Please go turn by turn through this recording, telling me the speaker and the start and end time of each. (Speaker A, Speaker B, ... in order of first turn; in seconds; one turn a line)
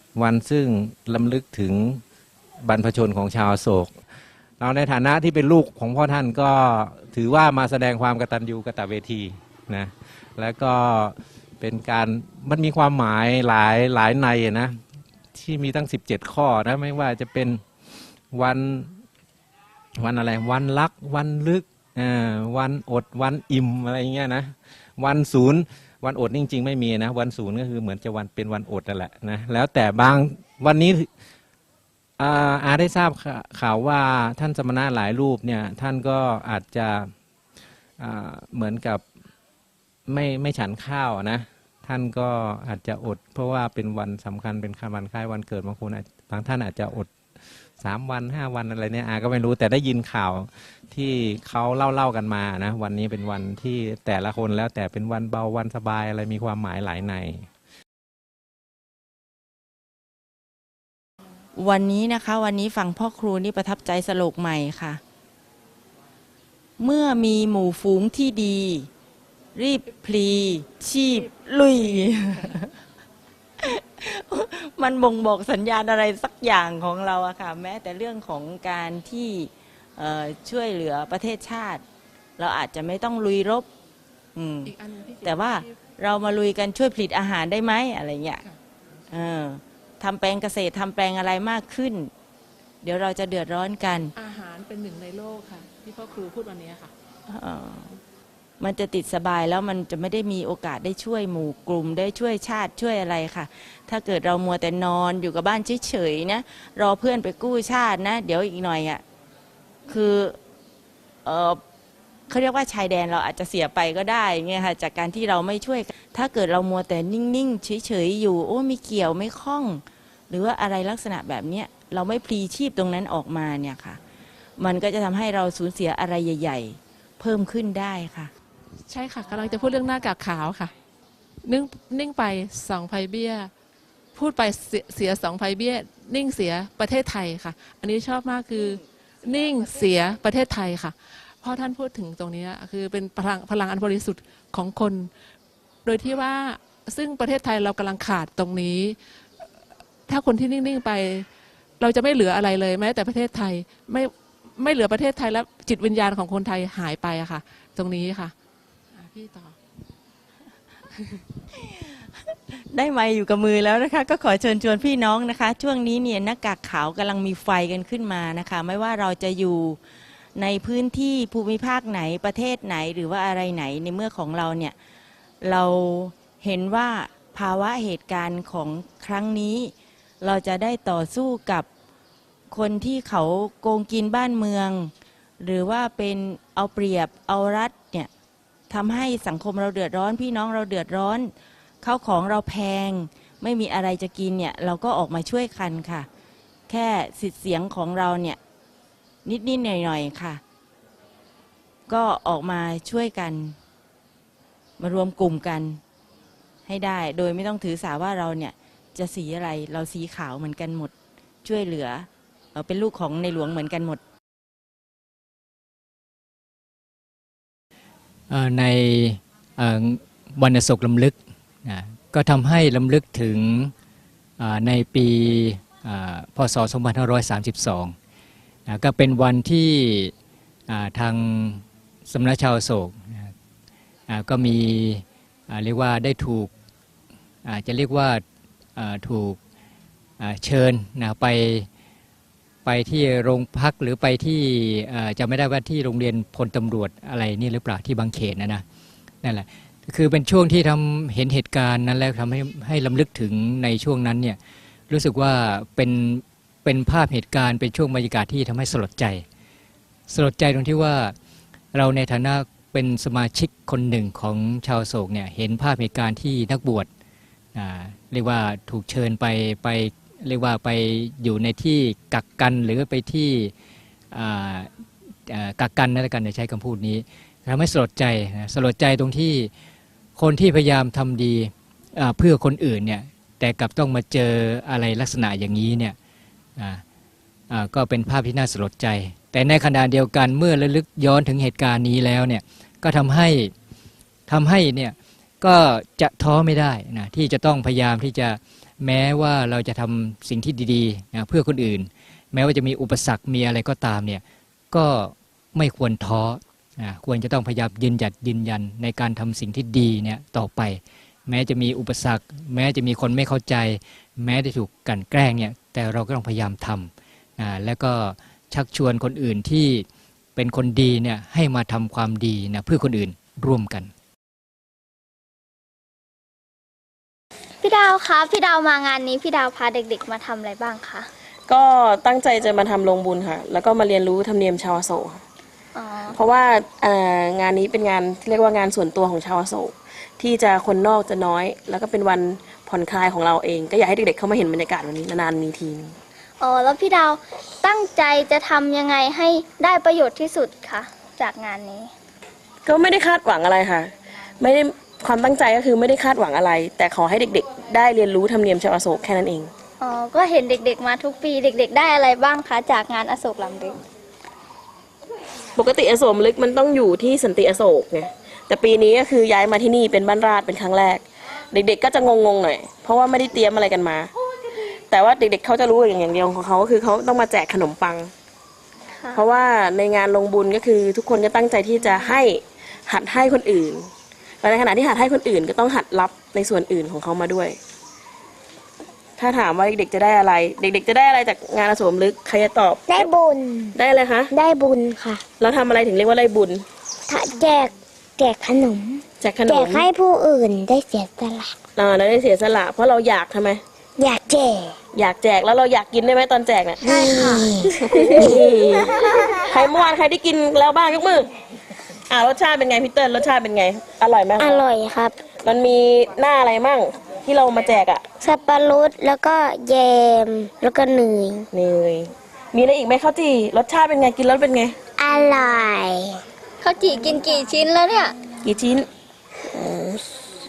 Speaker A: 0.1-2.0
Speaker A: 2.6-3.9
Speaker A: 4.6-14.8
Speaker A: 15.3-17.6
Speaker A: 18.3-18.9
Speaker A: 20.0-31.1
Speaker A: 32.2-37.1
Speaker A: 38.0-39.0
Speaker A: 40.1-47.1
Speaker A: 47.8-57.5
Speaker B: 61.6-65.0
Speaker B: 66.8-68.9
Speaker B: 69.5-72.8
Speaker B: 73.6-81.8
Speaker B: 82.4-83.7
Speaker B: 84.4-88.4
Speaker C: 84.7-85.7
Speaker B: 89.1-92.1
Speaker B: 92.8-94.1
Speaker C: 94.2-96.9
Speaker B: 97.3-98.0
Speaker B: 98.6-109.0
Speaker B: 109.9-110.4
Speaker B: 111.2-111.6
Speaker B: 112.3-124.0
Speaker B: 124.6-128.3
Speaker C: 128.9-130.7
Speaker C: 131.4-133.5
Speaker C: 134.2-145.1
Speaker C: 145.8-149.0
Speaker C: 150.1-151.3
Speaker C: 151.8-158.3
Speaker C: 158.9-159.6
Speaker B: 161.6-169.8
Speaker B: 170.4-174.8
Speaker B: 175.4-181.7
Speaker B: 182.5-188.1
Speaker B: 188.7-196.1
Speaker B: 196.7-198.4
Speaker B: 199.2-200.4
Speaker B: 201.9-203.6
Speaker B: 204.8-205.8
Speaker B: 206.7-210.9
Speaker B: 211.4-214.0
Speaker D: 218.3-223.7
Speaker D: 224.4-227.9
Speaker D: 228.7-230.1
Speaker D: 230.7-233.3
Speaker D: 234.1-236.5
Speaker D: 237.4-238.2
Speaker D: 238.8-239.4
Speaker D: 240.2-241.7
Speaker D: 242.7-248.6
Speaker D: 249.2-254.4
Speaker D: 254.9-259.2
Speaker D: 260.1-261.2
Speaker D: 261.7-266.9
Speaker D: 267.6-273.5
Speaker D: 274.1-274.7
Speaker D: 275.3-279.5
Speaker D: 280.2-286.0
Speaker D: 286.6-286.8
Speaker D: 287.5-293.5
Speaker D: 294.3-323.9
Speaker E: 327.6-331.1
Speaker F: 331.5-335.2
Speaker E: 335.8-336.2
Speaker F: 336.1-345.9
Speaker E: 346.4-351.9
Speaker F: 352.6-359.5
Speaker E: 359.8-363.8
Speaker F: 365.6-374.1
Speaker F: 374.9-378.1
Speaker E: 379.0-379.2
Speaker F: 379.1-383.9
Speaker F: 384.4-387.6
Speaker F: 389.2-393.1
Speaker G: 392.9-393.8
Speaker F: 393.8-394.3
Speaker G: 394.3-395.2
Speaker F: 395.4-396.6
Speaker G: 397.1-401.5
Speaker F: 399.2-399.9
Speaker F: 401.8-403.6
Speaker G: 404.0-404.8
Speaker F: 404.9-408.9
Speaker G: 406.8-408.9
Speaker E: 406.9-407.4
Speaker F: 409.5-411.3
Speaker F: 412.1-414.6
Speaker G: 414.4-415.2
Speaker F: 415.4-418.1
Speaker G: 418.2-421.5
Speaker F: 421.5-424.8
Speaker G: 425.0-426.2
Speaker E: 426.6-428.1
Speaker F: 428.4-428.9
Speaker G: 429.6-430.0